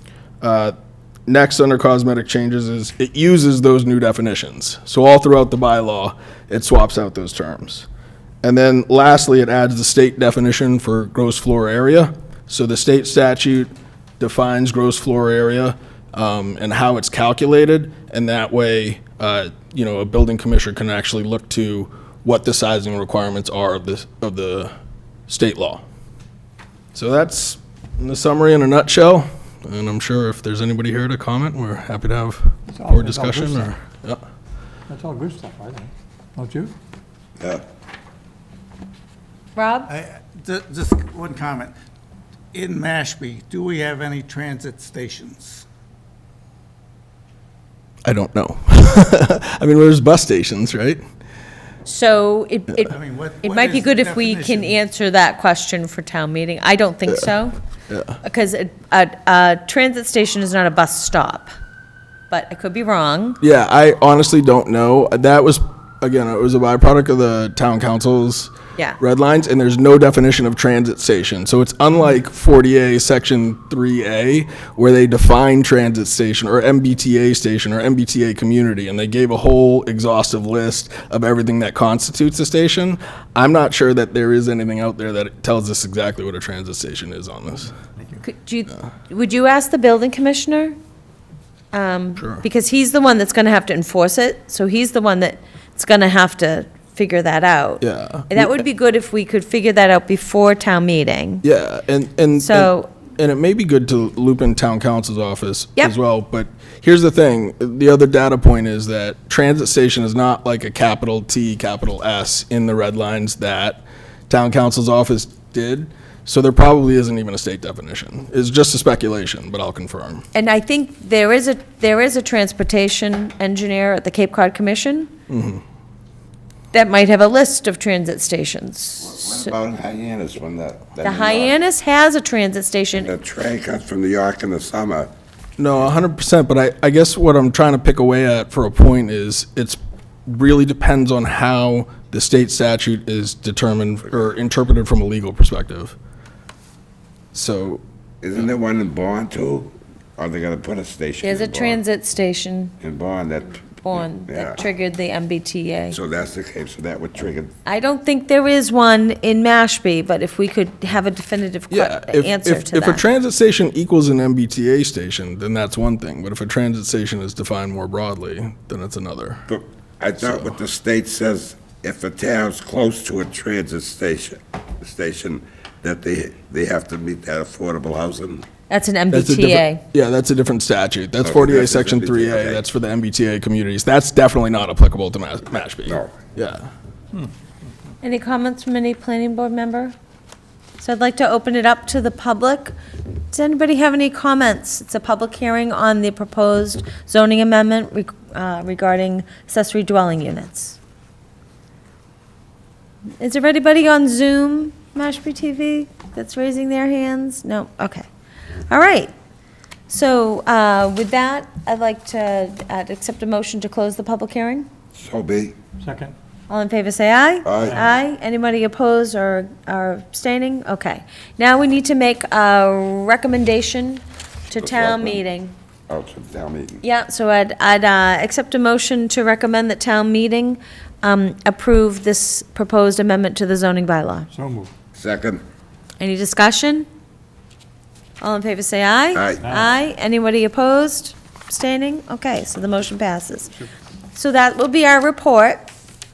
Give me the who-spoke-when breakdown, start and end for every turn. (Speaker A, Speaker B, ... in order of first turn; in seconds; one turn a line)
Speaker A: 0.4-0.7
Speaker A: 1.3-7.9
Speaker A: 8.4-24.7
Speaker A: 25.3-25.8
Speaker A: 26.9-34.2
Speaker B: 32.7-33.7
Speaker B: 34.9-36.7
Speaker C: 39.5-39.9
Speaker D: 39.9-41.7
Speaker D: 42.5-45.6
Speaker A: 48.0-51.0
Speaker C: 51.9-57.5
Speaker D: 52.9-54.8
Speaker A: 57.9-58.2
Speaker C: 58.2-61.5
Speaker C: 62.3-63.4
Speaker A: 63.4-87.7
Speaker C: 88.2-90.7
Speaker C: 91.7-101.4
Speaker A: 92.2-92.5
Speaker A: 97.8-98.6
Speaker A: 101.4-120.2
Speaker C: 102.4-102.9
Speaker C: 120.3-125.1
Speaker A: 125.3-125.6
Speaker C: 126.7-129.5
Speaker E: 129.1-131.6
Speaker C: 131.0-133.1
Speaker E: 133.0-135.1
Speaker A: 135.6-145.9
Speaker A: 147.3-147.8
Speaker E: 148.2-151.8
Speaker C: 151.2-152.7
Speaker E: 152.8-154.6
Speaker C: 153.8-156.0
Speaker E: 155.9-157.5
Speaker C: 157.7-163.0
Speaker A: 161.7-169.4
Speaker E: 169.5-178.4
Speaker A: 170.2-170.5
Speaker C: 178.7-179.8
Speaker A: 179.1-186.7
Speaker E: 181.2-182.6
Speaker E: 185.8-186.1
Speaker C: 188.0-189.9
Speaker C: 190.8-192.7
Speaker C: 193.3-200.8
Speaker C: 203.2-208.1
Speaker C: 208.7-209.1
Speaker C: 209.9-214.7
Speaker E: 214.9-215.6
Speaker B: 215.8-216.1
Speaker C: 216.5-225.5
Speaker E: 217.4-217.8
Speaker B: 217.6-217.9
Speaker E: 224.5-225.2
Speaker E: 225.9-226.8
Speaker C: 226.8-234.3
Speaker B: 234.3-234.7
Speaker E: 234.9-235.4
Speaker C: 236.0-236.8
Speaker C: 238.2-243.6
Speaker E: 239.1-239.6
Speaker B: 239.4-239.7
Speaker C: 244.1-245.7